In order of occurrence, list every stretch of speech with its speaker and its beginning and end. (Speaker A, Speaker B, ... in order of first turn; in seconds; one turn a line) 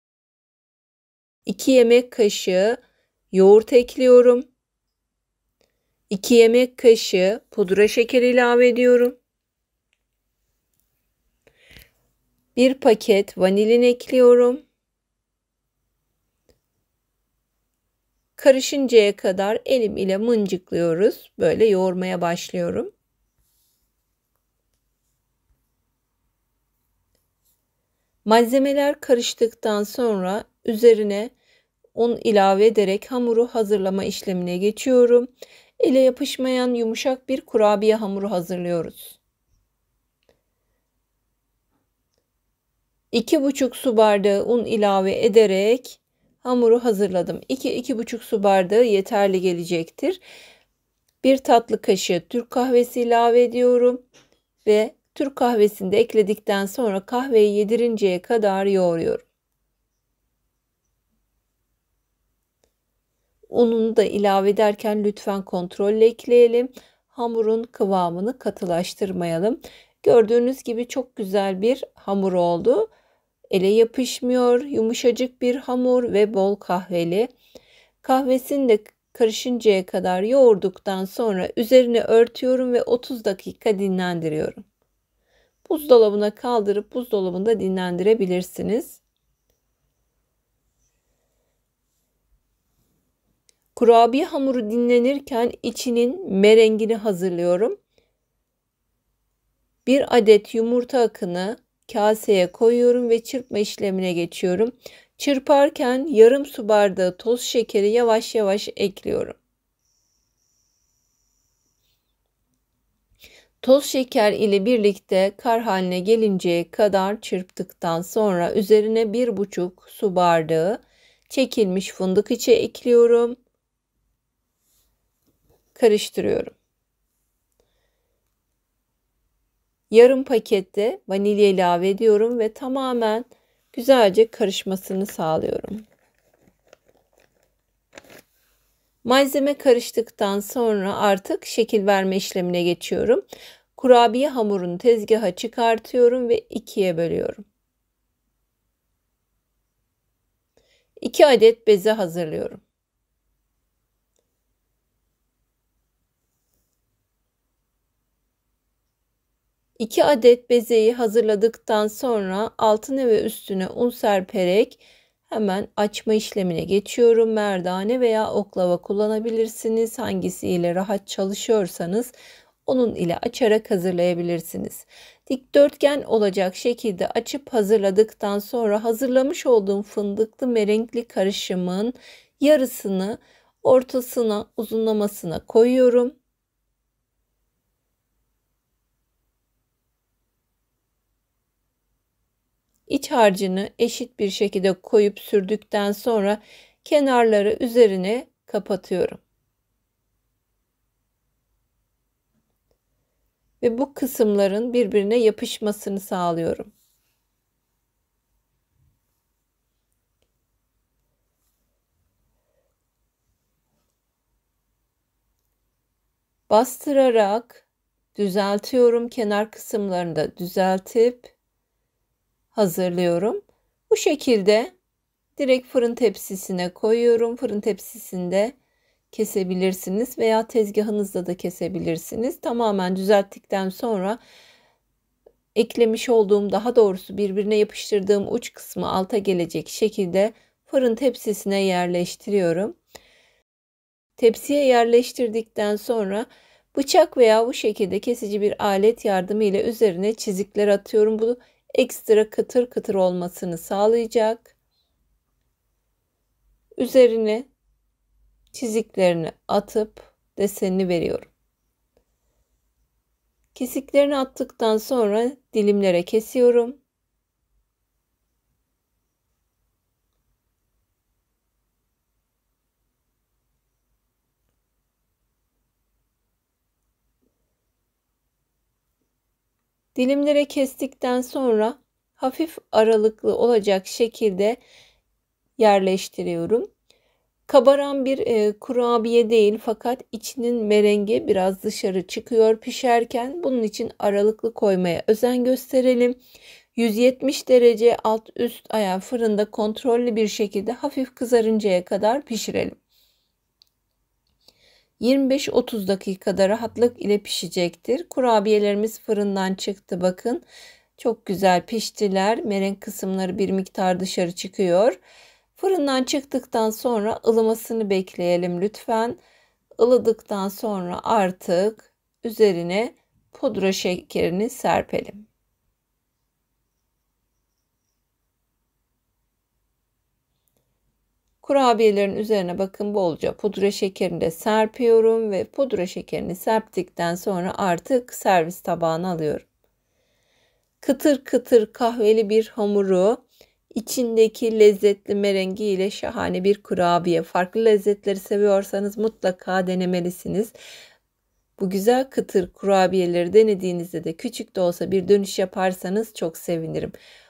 Speaker A: 1.5-2.8
Speaker A: 3.3-4.4
Speaker A: 6.1-9.2
Speaker A: 12.6-14.6
Speaker A: 18.4-22.9
Speaker A: 28.2-31.3
Speaker A: 31.9-39.2
Speaker A: 43.1-50.2
Speaker A: 51.2-54.0
Speaker A: 54.6-59.2
Speaker A: 63.5-72.9
Speaker A: 73.5-77.3
Speaker A: 78.0-84.6
Speaker A: 85.7-89.0
Speaker A: 93.7-97.8
Speaker A: 99.8-109.4
Speaker A: 113.6-123.3
Speaker A: 125.7-126.5
Speaker A: 129.9-135.8
Speaker A: 139.0-143.2
Speaker A: 143.7-147.4
Speaker A: 151.0-152.6
Speaker A: 159.8-172.1
Speaker A: 172.7-186.1
Speaker A: 192.9-199.2
Speaker A: 203.6-206.7
Speaker A: 216.5-221.3
Speaker A: 222.5-224.7
Speaker A: 225.4-228.5
Speaker A: 229.1-234.2
Speaker A: 235.5-242.7
Speaker A: 244.2-254.5
Speaker A: 256.8-257.5
Speaker A: 258.5-261.3
Speaker A: 263.5-266.8
Speaker A: 279.9-284.6
Speaker A: 285.6-286.7
Speaker A: 287.5-296.1
Speaker A: 296.8-302.8
Speaker A: 305.0-310.4
Speaker A: 311.0-315.0
Speaker A: 315.5-319.2
Speaker A: 319.8-325.2
Speaker A: 331.4-339.4
Speaker A: 340.8-350.5
Speaker A: 351.6-356.9